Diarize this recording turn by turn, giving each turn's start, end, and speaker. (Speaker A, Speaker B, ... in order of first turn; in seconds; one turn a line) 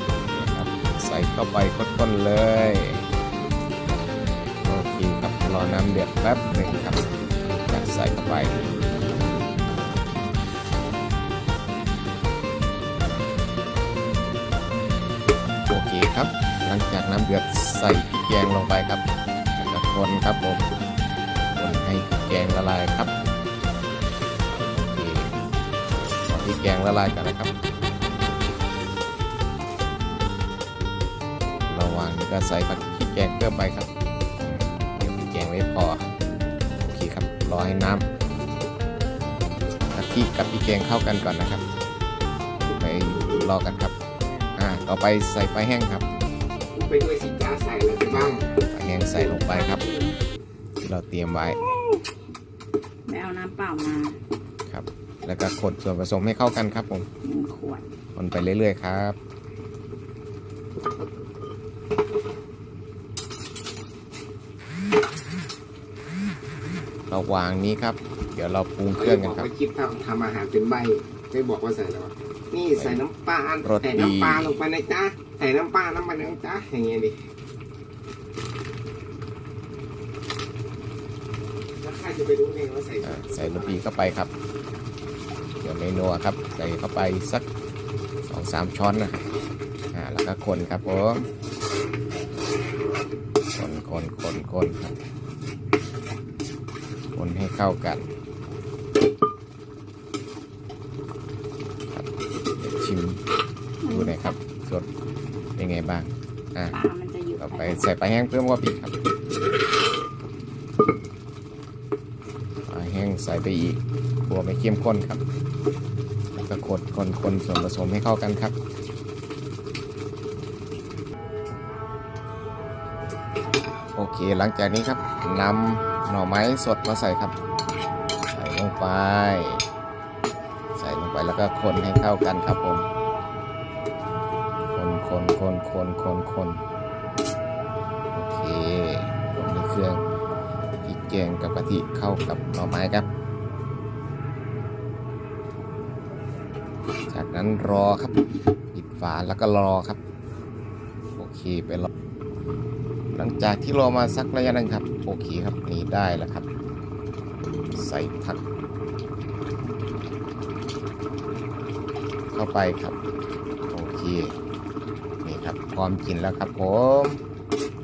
Speaker A: 0.3-3.0
Speaker A: 4.6-8.7
Speaker A: 15.7-19.0
Speaker A: 19.6-20.6
Speaker A: 21.6-23.1
Speaker A: 24.5-25.4
Speaker A: 26.2-27.5
Speaker A: 31.7-33.9
Speaker A: 34.4-36.1
Speaker A: 36.8-38.0
Speaker A: 39.9-41.6
Speaker A: 42.7-43.9
Speaker A: 44.5-46.0
Speaker B: 46.7-48.6
Speaker A: 48.1-49.8
Speaker C: 49.2-50.2
Speaker A: 50.8-51.6
Speaker C: 51.6-52.0
Speaker C: 53.0-54.2
Speaker A: 54.7-57.1
Speaker C: 57.2-57.8
Speaker A: 58.1-59.2
Speaker A: 67.1-69.5
Speaker B: 68.9-77.2
Speaker A: 72.8-73.0
Speaker A: 73.6-74.5
Speaker B: 81.8-83.8
Speaker A: 83.0-84.3
Speaker A: 85.6-87.5
Speaker A: 88.3-89.2
Speaker A: 89.9-91.3
Speaker A: 93.5-94.9
Speaker A: 97.1-98.1
Speaker A: 102.6-103.2
Speaker C: 103.8-104.3
Speaker A: 103.9-104.9
Speaker A: 105.6-106.8
Speaker C: 106.7-107.9
Speaker A: 107.4-108.9
Speaker A: 112.7-115.2
Speaker A: 116.3-118.5
Speaker A: 124.0-127.3
Speaker A: 128.3-129.6
Speaker A: 130.7-132.9
Speaker A: 134.7-136.6
Speaker A: 138.1-140.0
Speaker A: 140.8-143.1
Speaker A: 147.1-148.2
Speaker A: 148.7-150.0
Speaker A: 151.2-151.9
Speaker A: 153.1-156.5
Speaker A: 157.7-158.4
Speaker A: 162.3-162.9
Speaker A: 163.7-164.3
Speaker A: 165.2-167.2